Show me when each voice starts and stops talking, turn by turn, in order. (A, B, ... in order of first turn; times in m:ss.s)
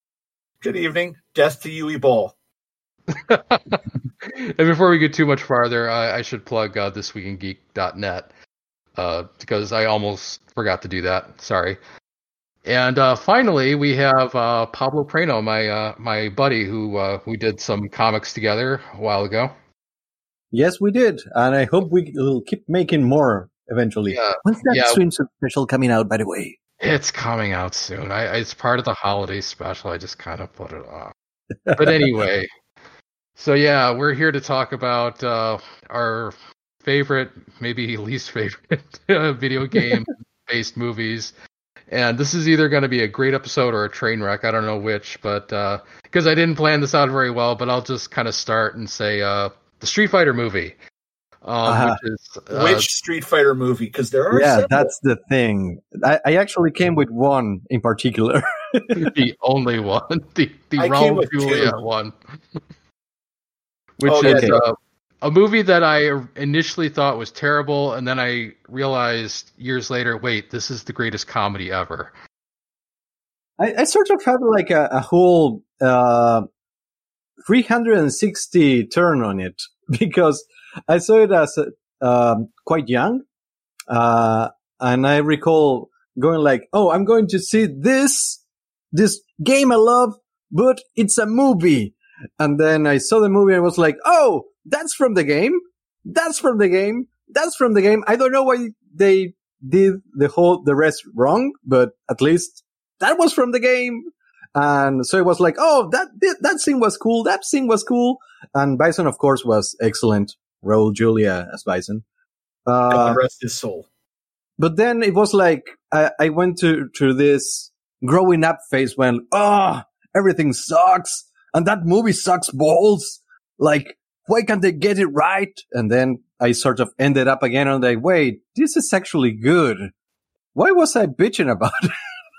0:00.6-0:02.3 A
0:03.1-0:08.3 B
0:09.0-0:11.8 B
0:12.6-0:19.5 B
0:20.5-0:26.6 C
0:24.1-0:25.0 B
0:26.8-0:31.1 B
0:31.7-0:32.1 C
0:31.7-0:32.5 B
0:33.4-0:41.3 B
0:41.9-0:50.8 B
0:51.4-0:52.9 B
0:51.6-0:52.0 C
0:52.5-0:54.9 A
0:54.3-0:59.1 C
0:59.0-1:02.2 B
1:00.8-1:01.8 A
1:04.0-1:12.1 B
1:04.0-1:04.6 A
1:04.2-1:04.6 C
1:13.6-1:16.5 C
1:17.4-1:23.2 C
1:23.9-1:28.4 C
1:28.9-1:52.0 C
1:52.7-1:53.2 C
1:52.9-1:53.9 A
1:54.6-2:09.9 C
2:10.6-2:11.9 C